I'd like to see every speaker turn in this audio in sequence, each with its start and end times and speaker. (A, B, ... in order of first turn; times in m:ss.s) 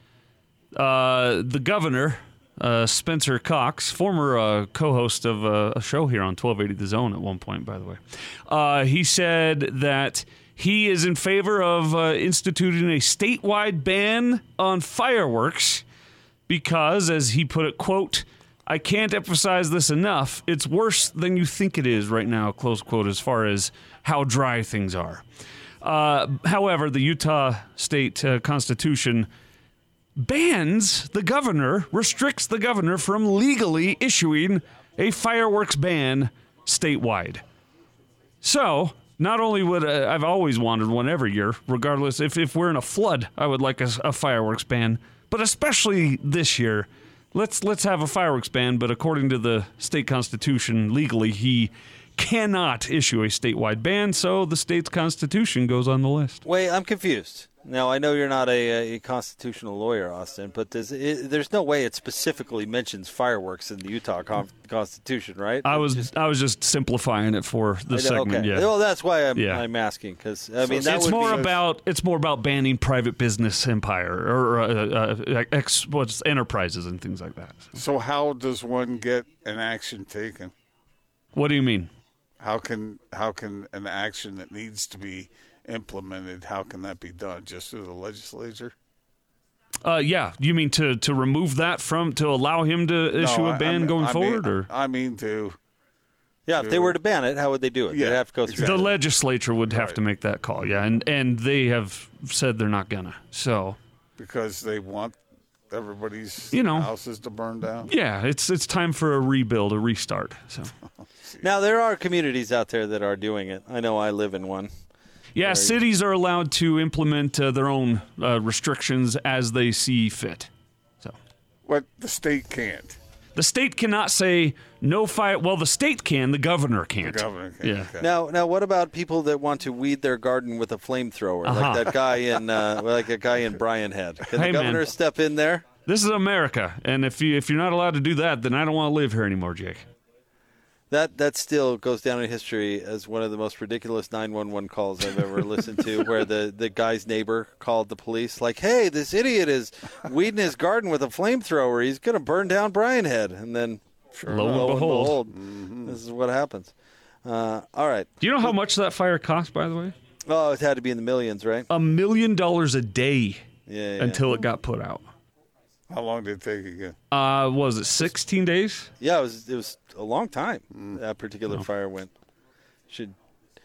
0:00.7-0:15.8 A
0:16.5-0:25.2 A
0:25.8-0:29.3 A
0:30.2-0:37.4 A
0:38.4-0:56.4 A
0:56.4-1:06.1 B
1:05.6-1:08.7 A
1:07.9-1:11.4 B
1:09.4-1:09.7 A
1:10.6-1:11.6 C
1:10.7-1:17.8 A
1:17.8-1:20.5 C
1:21.3-1:21.9 A
1:22.4-1:28.7 C
1:29.8-1:34.7 A
1:33.2-1:35.6 C
1:36.5-1:38.9 B
1:36.6-1:37.0 C
1:37.9-1:39.0 C
1:38.6-1:43.8 A
1:39.7-1:40.0 C
1:44.2-1:45.2 C
1:45.7-1:47.9 C
1:46.5-1:46.9 A
1:47.9-1:50.7 A
1:51.4-1:54.7 B
1:55.4-2:00.5 A
1:55.4-1:55.8 B
2:01.7-2:03.0 C
2:03.4-2:08.0 A
2:07.0-2:08.1 C
2:08.0-2:15.6 B
2:11.4-2:11.9 A
2:14.3-2:14.9 A
2:15.8-2:19.9 A
2:20.9-2:33.8 B
2:34.1-2:36.0 C
2:34.3-2:35.2 A
2:34.3-2:36.7 B
2:37.2-2:38.1 B
2:38.2-2:40.0 A
2:40.2-2:41.7 B
2:41.7-2:45.1 A
2:43.7-2:44.3 B
2:45.9-2:47.0 C
2:47.1-2:48.9 A
2:49.0-2:52.1 B
2:50.7-2:51.0 C
2:52.9-2:53.2 B